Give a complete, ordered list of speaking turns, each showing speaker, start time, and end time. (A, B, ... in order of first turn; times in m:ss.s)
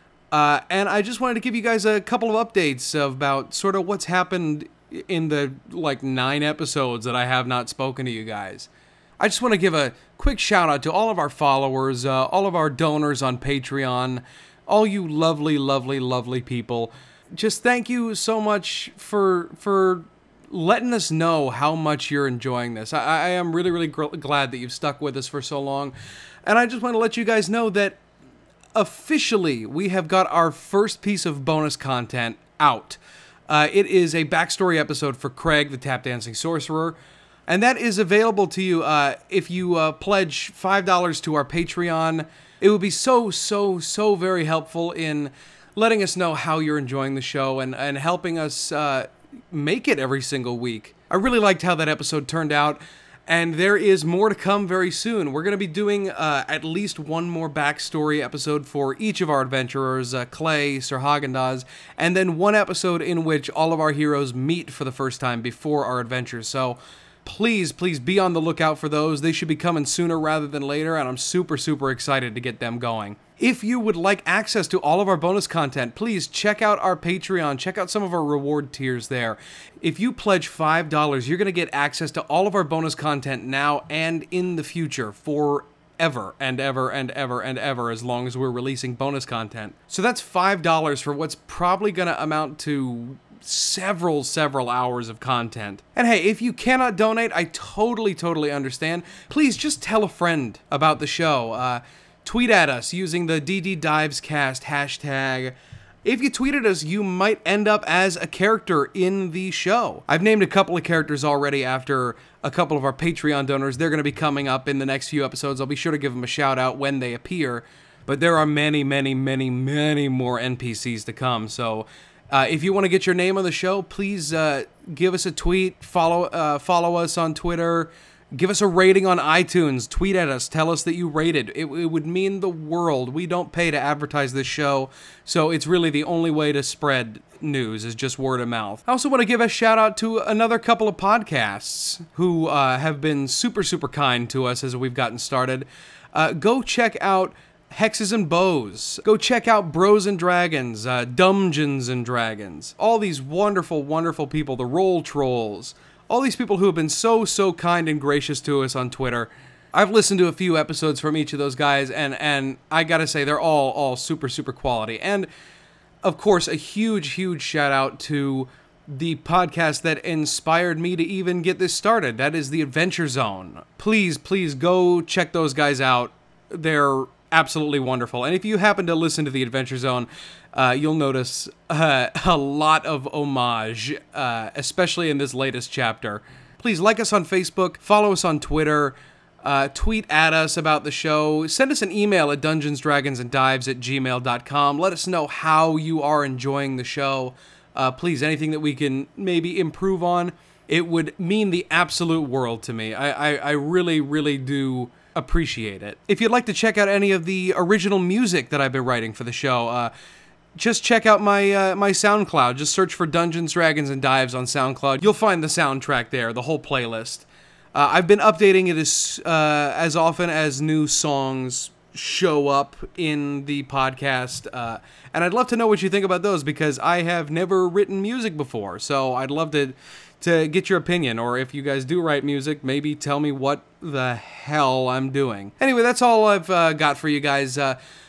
0:00.3-0:28.0 A
0:28.7-2:45.3 A
2:46.0-3:29.9 A
3:30.6-3:57.8 A